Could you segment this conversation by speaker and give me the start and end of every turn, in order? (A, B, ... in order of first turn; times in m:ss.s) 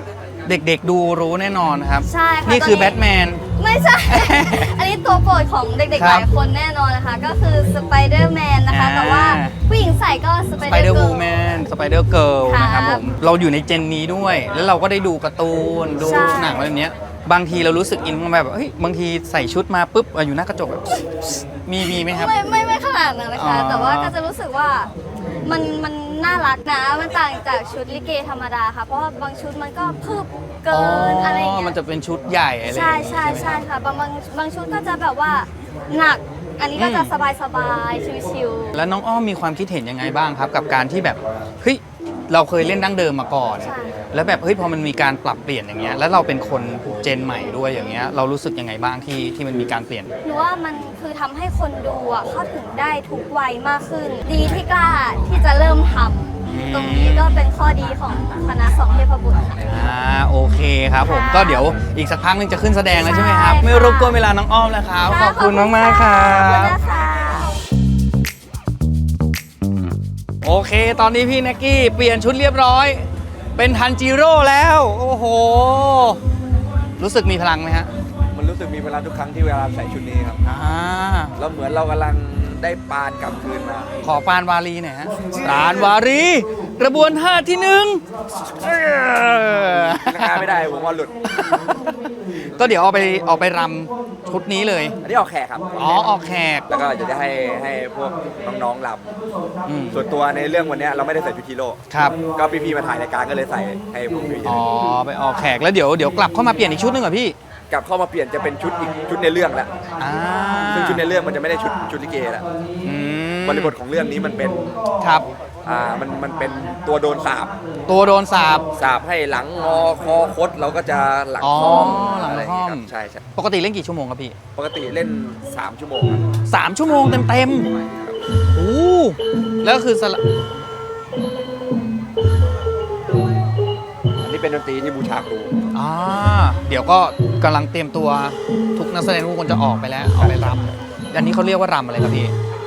0:00.4-0:03.4 A
0:02.1-0:11.3 B
0:04.1-0:04.7 A
0:06.0-0:06.3 A
0:08.7-0:09.6 A
0:10.6-0:22.3 A
0:12.5-0:13.0 B
0:16.0-0:16.6 B
0:21.9-0:24.9 B
0:23.4-0:24.1 A
0:25.4-0:31.8 B
0:30.7-0:33.6 A
0:32.7-0:38.7 B
0:36.8-0:37.1 A
0:38.7-0:50.1 A
0:43.6-0:44.0 B
0:50.2-0:59.8 B
0:56.5-0:57.3 A
0:59.6-1:06.8 A
1:01.0-1:01.8 B
1:03.0-1:04.2 B
1:05.0-1:07.6 B
1:10.4-1:16.2 A
1:17.0-1:17.9 A
1:18.3-1:20.4 C
1:20.4-1:21.3 A
1:21.4-1:23.9 C
1:24.0-1:28.0 A
1:25.4-1:25.9 C
1:28.6-1:30.5 A
1:30.1-1:31.1 C
1:31.3-1:31.9 A
1:32.6-1:35.0 A
1:35.0-1:35.7 C
1:35.8-1:36.7 A
1:36.7-1:39.1 C
1:39.7-1:40.0 A
1:39.9-1:41.8 C
1:41.9-1:42.2 A
1:42.3-1:44.6 C
1:44.4-1:47.4 A
1:47.7-1:49.7 C
1:50.0-1:51.0 A
1:50.7-1:52.4 C
1:52.8-1:53.8 A
1:53.4-1:54.7 C
1:55.0-1:55.3 A
1:55.6-1:57.5 C
1:57.9-1:58.7 A
1:58.8-2:03.2 C
2:01.4-2:04.4 A
2:04.6-2:06.2 C
2:06.5-2:07.7 A
2:07.7-2:08.2 C
2:08.5-2:10.2 A
2:14.2-2:15.5 C
2:15.7-2:22.3 A
2:20.2-2:20.7 C